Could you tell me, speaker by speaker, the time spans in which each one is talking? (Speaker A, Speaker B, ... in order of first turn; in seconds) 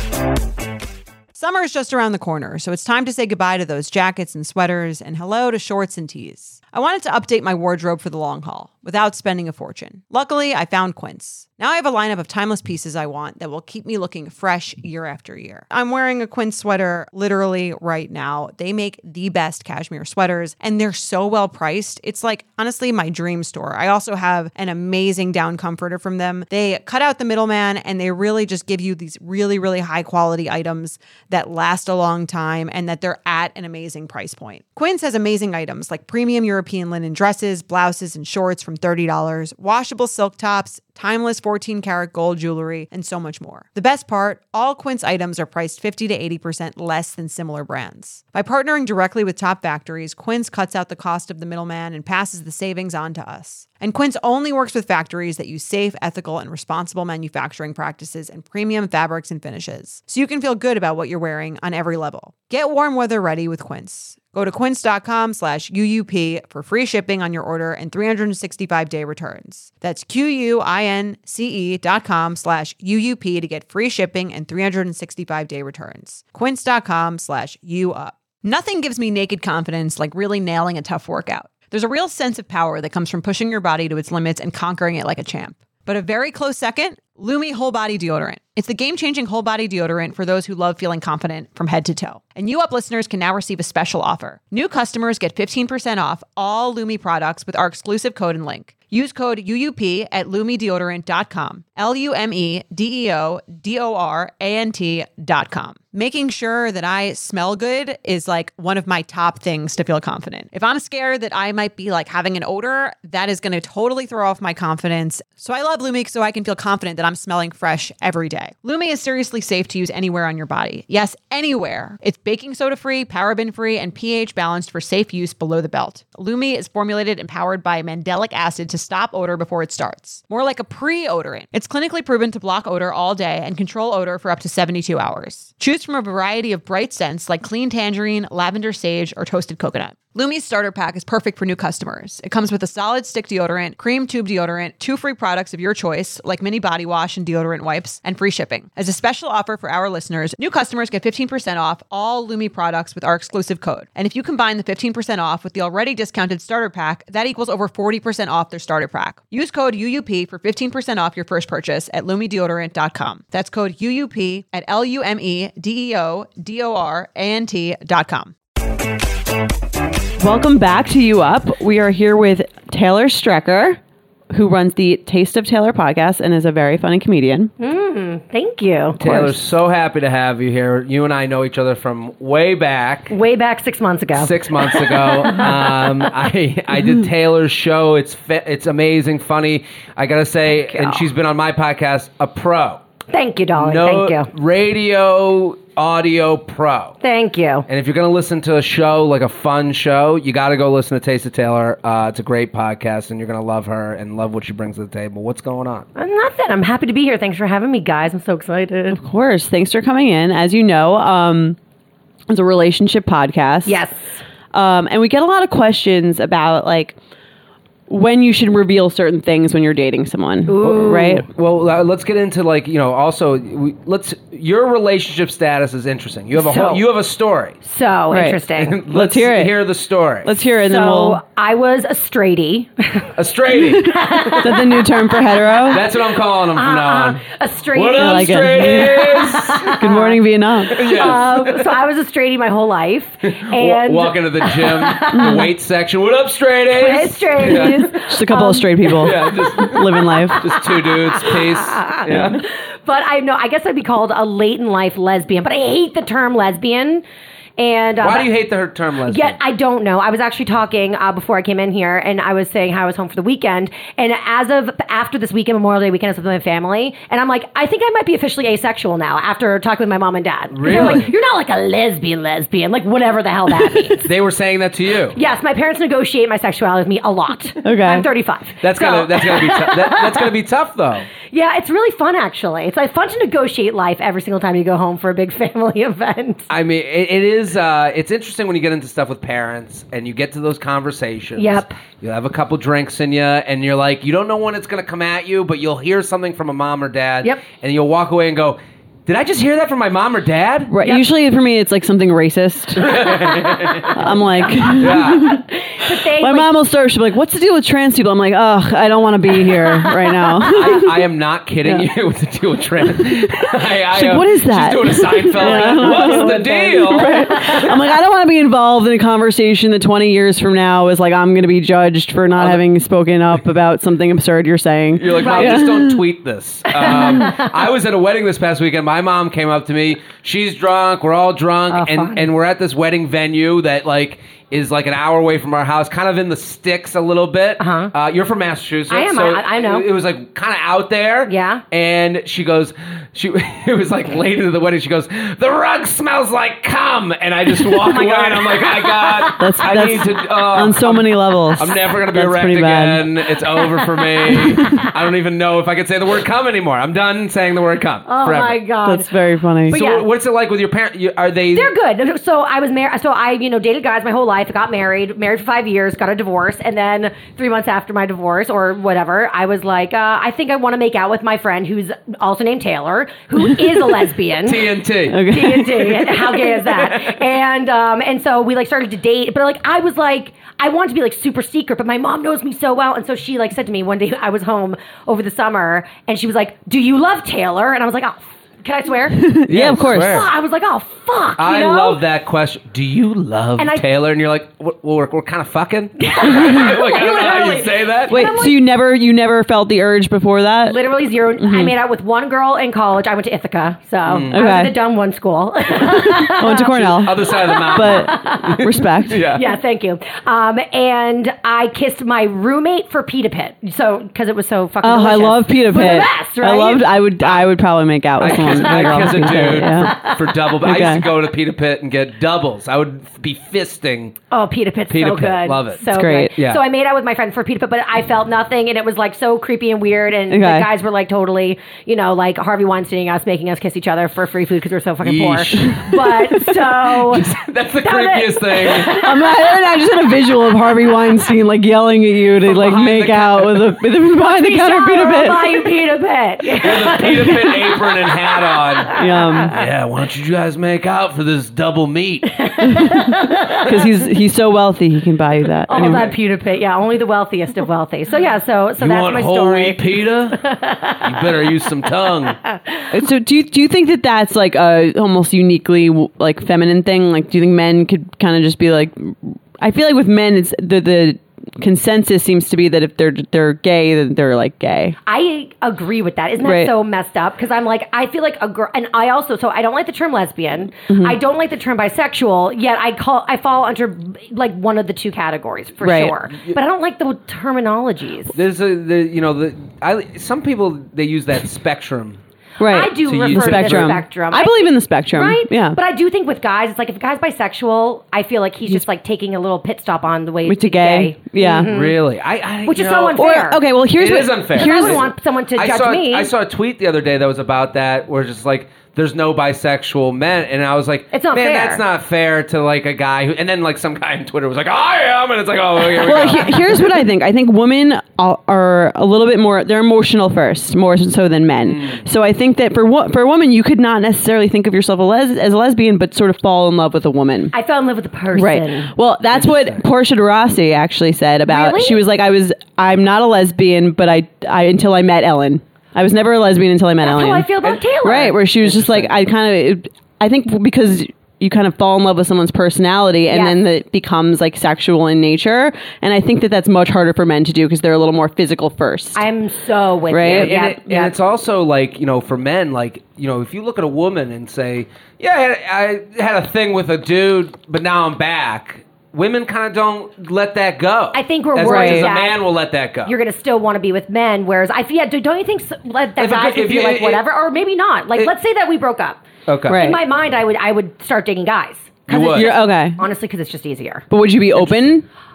Speaker A: 1.3-168.3
Speaker B: 170.2-173.8, 174.3-177.5, 179.0-179.4, 208.9-211.6, 212.3-213.8, 214.5-216.9, 217.9-221.2, 228.1-229.6, 230.2-231.2, 233.6-235.8, 237.9-240.8, 245.1-245.5, 247.4-250.5, 277.6-278.1, 300.7-302.9, 303.9-311.1, 311.6-311.9, 313.0-326.0, 326.8-327.1, 349.4-353.1, 354.3-354.9, 358.8-359.8, 375.1-376.1, 389.2-390.3, 398.1-401.7, 404.3-404.7, 405.8-409.2, 414.8-421.1, 425.9-426.3, 430.3-430.7, 438.9-445.7, 448.9-449.5, 452.6-456.1, 462.9-475.0, 476.4-476.7, 480.9-481.2, 485.8-486.1, 492.6-495.8, 500.4-501.7, 503.1-505.0, 516.0-527.5, 528.3-537.5, 538.0-549.2, 550.1-550.6, 561.6-562.1, 569.7-570.0, 572.2-573.0, 574.1-575.0
Speaker C: 177.6-179.0, 183.1-186.1, 193.1-194.3, 197.0-197.7, 205.9-209.0, 213.7-214.2, 220.5-221.2, 226.4-226.8, 227.6-228.8, 230.6-234.9, 236.5-245.5, 246.7-257.0, 257.6-258.3, 259.0-274.1, 275.1-280.3, 281.3-286.4, 291.4-291.8, 300.8-301.1, 302.8-306.5, 309.5-310.9, 315.2-317.7, 325.1-325.9, 326.7-327.5, 331.7-332.3, 337.6-337.9, 338.9-339.9, 341.2-341.6, 347.5-349.5, 353.6-354.9, 358.1-359.1, 359.7-360.1, 361.5-374.7, 375.2-392.0, 393.6-393.8, 396.0-398.6, 400.6-408.7, 409.2-417.4, 418.3-420.5, 424.3-437.2, 437.8-439.2, 444.1-449.6, 452.4-453.8, 455.7-461.5, 475.1-488.4, 492.6-502.0, 502.6-503.6, 504.5-506.3, 511.1-511.8, 527.5-528.9, 531.5-532.0, 537.0-538.4, 543.3-543.6, 549.1-551.1, 561.1-562.5, 563.0-574.0
Speaker D: 179.0-183.1, 184.1-192.8, 193.6-197.0, 197.7-205.8, 220.8-227.6, 228.5-230.3, 233.2-234.6, 235.6-237.2, 237.7-239.9, 240.7-241.7, 243.2-248.0, 248.9-252.4, 258.0-259.4, 270.5-271.1, 274.0-275.2, 278.6-281.1, 286.5-300.7, 302.8-305.4, 310.5-317.7, 322.4-322.6, 324.9-358.6, 359.7-361.7, 374.4-375.2, 376.0-377.2, 389.5-390.3, 391.4-398.4, 404.0-404.4, 406.6-409.5, 418.2-424.1, 424.9-426.6, 435.0-439.1, 442.4-443.8, 446.4-448.9, 449.5-452.3, 455.7-456.2, 458.8-460.4, 461.0-462.4, 488.3-492.2, 493.0-494.0, 501.6-503.2, 503.9-517.0, 521.7-522.0, 529.3-529.8, 537.6-537.9, 538.6-539.2, 550.3-563.2, 566.2-567.2, 569.5-569.9, 572.1-572.5, 574.6-574.9